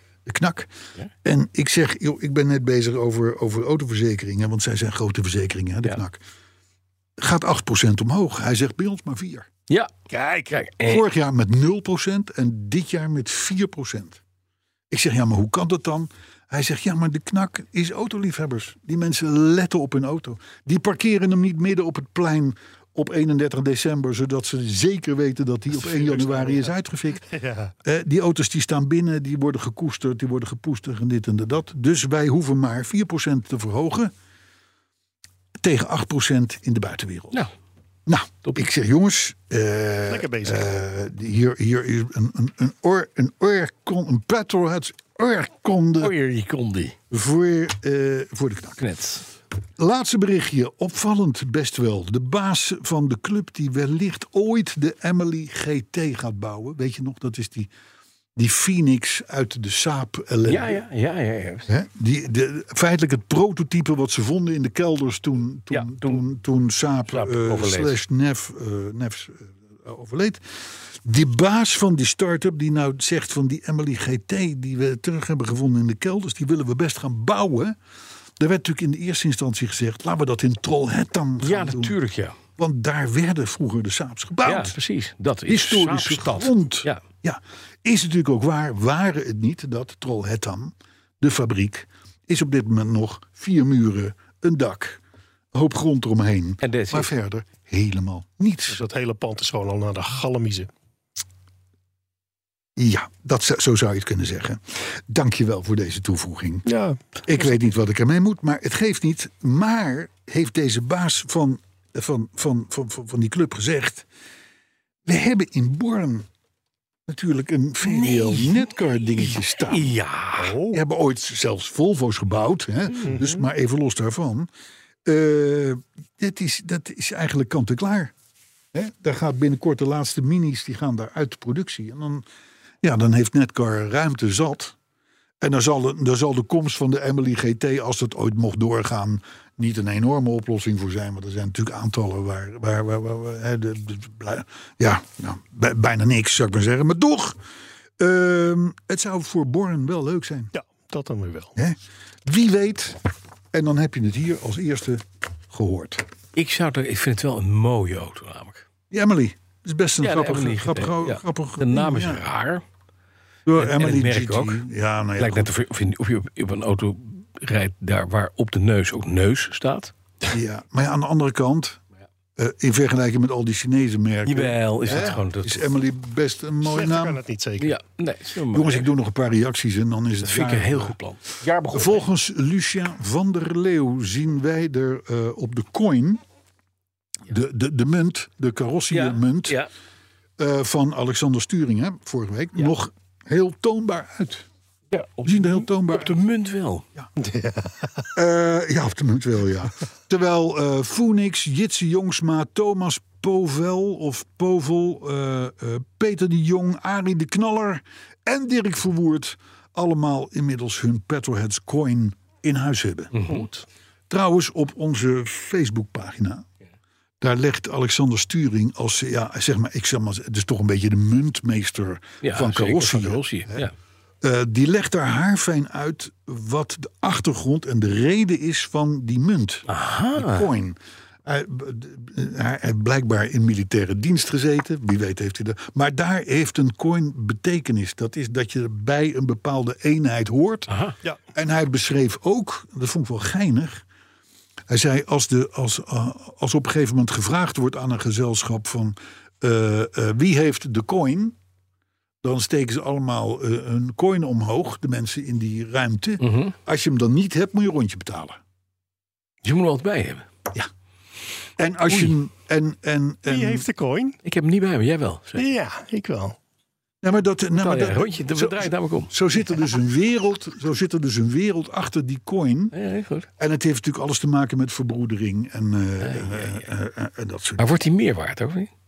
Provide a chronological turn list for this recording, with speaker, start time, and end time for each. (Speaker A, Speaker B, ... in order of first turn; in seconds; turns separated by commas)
Speaker A: 0.3-0.7, Speaker A: 1.2-6.2, Speaker A: 7.2-9.5, Speaker B: 10.1-10.5, Speaker C: 10.5-11.0, Speaker A: 10.8-14.2, Speaker A: 14.9-27.3, Speaker B: 25.7-26.7, Speaker B: 27.3-27.7, Speaker A: 27.8-34.1, Speaker A: 35.6-37.5, Speaker A: 38.1-46.1, Speaker B: 40.1-40.7, Speaker C: 46.0-47.0, Speaker A: 47.1-48.8, Speaker C: 48.8-49.3, Speaker A: 49.8-57.7, Speaker A: 58.4-60.8, Speaker C: 60.5-61.7, Speaker A: 61.7-77.8, Speaker C: 65.7-66.2, Speaker C: 67.1-68.0, Speaker A: 78.4-82.0, Speaker C: 81.4-82.4, Speaker A: 82.6-84.8, Speaker C: 84.5-87.0, Speaker A: 85.5-95.0, Speaker A: 95.5-98.8, Speaker C: 96.6-97.1, Speaker B: 98.7-100.7, Speaker A: 102.8-106.7, Speaker B: 106.7-107.0, Speaker A: 107.3-114.1, Speaker A: 115.1-116.3, Speaker A: 117.1-119.9, Speaker C: 117.9-118.5, Speaker C: 119.7-120.5, Speaker B: 120.4-120.8, Speaker A: 120.7-124.5, Speaker B: 123.0-123.5, Speaker A: 125.1-128.1, Speaker A: 128.7-132.2, Speaker A: 132.8-134.8, Speaker A: 135.4-147.4, Speaker A: 148.0-150.5, Speaker B: 150.5-151.6, Speaker A: 151.6-153.0, Speaker A: 153.5-156.0, Speaker C: 156.3-158.7, Speaker A: 158.9-162.2, Speaker C: 160.0-162.6, Speaker A: 163.5-165.5, Speaker C: 163.6-164.6, Speaker C: 165.2-169.9, Speaker A: 170.3-171.8, Speaker A: 172.4-177.2, Speaker C: 174.2-175.8, Speaker B: 176.6-177.8, Speaker C: 177.6-178.9, Speaker A: 178.5-180.9, Speaker C: 180.2-182.1, Speaker A: 181.7-186.2, Speaker A: 187.3-189.6, Speaker C: 188.9-189.7, Speaker A: 190.4-194.5, Speaker C: 194.9-196.8, Speaker A: 195.2-196.2, Speaker B: 197.2-198.1, Speaker A: 198.2-213.4, Speaker C: 213.1-213.6, Speaker A: 214.1-216.5, Speaker A: 217.2-223.7, Speaker C: 222.2-223.7, Speaker A: 224.2-240.7, Speaker C: 229.7-230.5, Speaker C: 240.7-240.9, Speaker A: 241.3-243.8, Speaker A: 244.7-251.4, Speaker A: 252.2-258.4, Speaker C: 256.2-256.6, Speaker C: 259.4-260.2, Speaker A: 261.6-263.7, Speaker B: 263.3-264.2, Speaker C: 264.2-265.4, Speaker B: 265.4-266.4, Speaker A: 267.0-272.8, Speaker C: 267.6-269.1, Speaker C: 272.7-273.3, Speaker A: 273.4-277.7, Speaker C: 276.0-276.7, Speaker C: 277.6-278.7